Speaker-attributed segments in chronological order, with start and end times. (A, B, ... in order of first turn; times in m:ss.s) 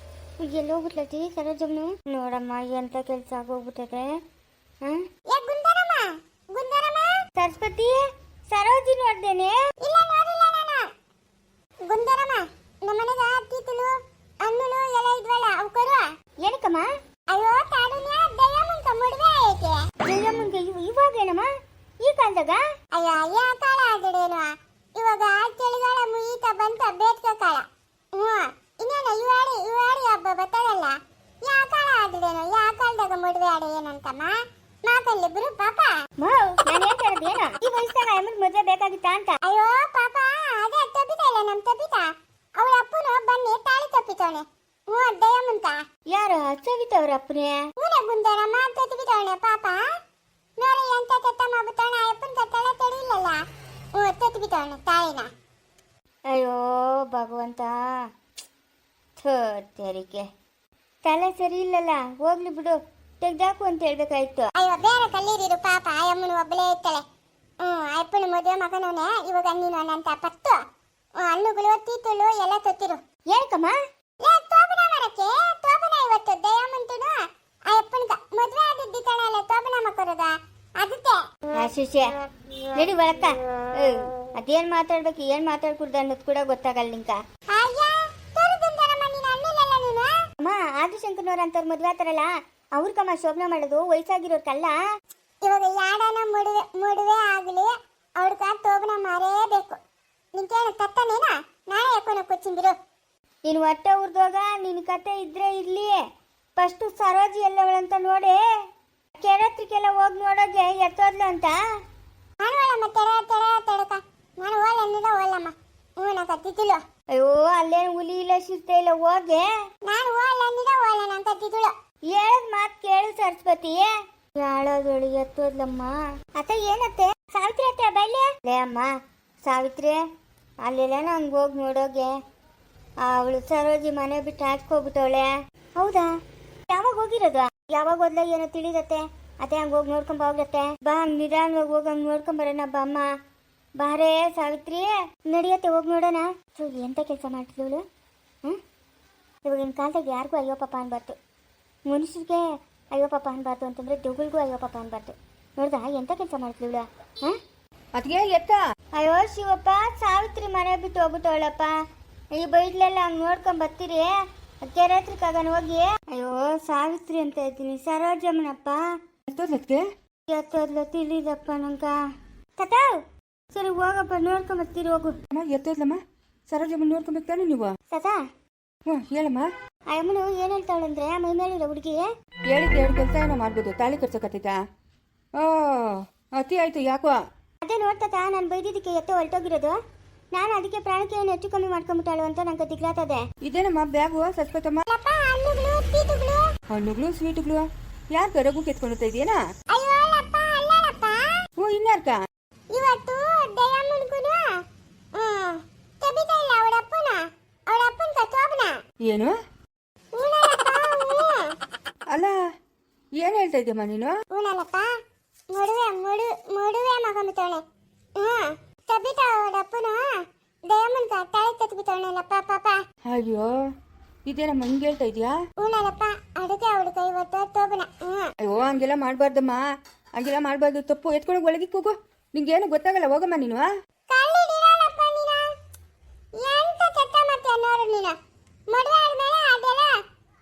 0:00.4-0:04.2 A
0:05.3-0:07.1 B
0:07.4-0:09.6 A
0:09.8-0:10.9 B
0:11.8-0:16.0 B
0:16.4-0:16.9 A
0:17.3-0:19.9 B
0:20.0-0:21.5 A
0:22.0-0:22.6 A
0:22.9-0:36.0 B
0:36.2-0:39.4 A
0:39.4-0:45.8 B
0:46.1-0:47.6 A
0:47.8-0:49.8 B
0:50.6-0:53.4 B
0:53.9-0:55.3 B
0:56.3-0:58.0 A
0:59.2-1:00.2 A
1:01.0-1:04.5 A
1:04.6-1:07.0 B
1:07.6-1:10.6 B
1:11.2-1:13.0 B
1:13.3-1:13.8 A
1:14.2-1:21.3 B
1:21.5-1:22.1 A
1:22.7-1:27.2 A
1:27.5-1:30.2 B
1:30.4-1:34.7 A
1:35.4-1:39.8 B
1:40.3-1:42.8 B
1:43.4-1:46.0 A
1:46.6-1:48.4 A
1:49.2-1:51.6 A
1:52.4-1:56.8 B
1:57.1-1:59.5 A
1:59.8-2:01.7 B
2:02.1-2:10.0 A
2:10.6-2:12.2 A
2:13.0-2:16.1 A
2:16.7-2:23.1 A
2:23.8-2:27.8 A
2:29.4-2:31.2 A
2:31.9-2:37.4 A
2:37.9-2:38.6 C
2:38.9-2:41.8 A
2:42.3-2:48.9 A
2:49.3-2:49.8 C
2:50.3-2:52.0 A
2:52.6-2:55.2 A
2:55.3-2:57.7 C
2:57.9-2:58.2 A
2:58.8-2:59.5 C
2:59.9-3:02.1 A
3:02.5-3:04.6 C
3:05.4-3:07.2 C
3:07.6-3:09.8 A
3:10.3-3:13.2 A
3:13.4-3:14.8 C
3:14.9-3:16.5 B
3:16.7-3:19.4 C
3:19.7-3:21.3 B
3:21.6-3:22.2 C
3:22.7-3:24.6 B
3:25.1-3:28.8 B
3:29.0-3:29.4 C
3:30.1-3:31.6 B
3:32.1-3:32.3 C
3:33.2-3:34.2 C
3:34.3-3:34.9 B
3:35.5-3:37.6 B
3:38.2-3:42.8 B
3:43.0-3:43.5 C
3:44.3-3:45.3 C
3:45.6-3:48.3 B
3:48.4-3:49.6 C
3:50.2-3:53.7 C
3:54.1-3:55.4 B
3:56.4-3:58.2 B
3:58.7-4:00.0 B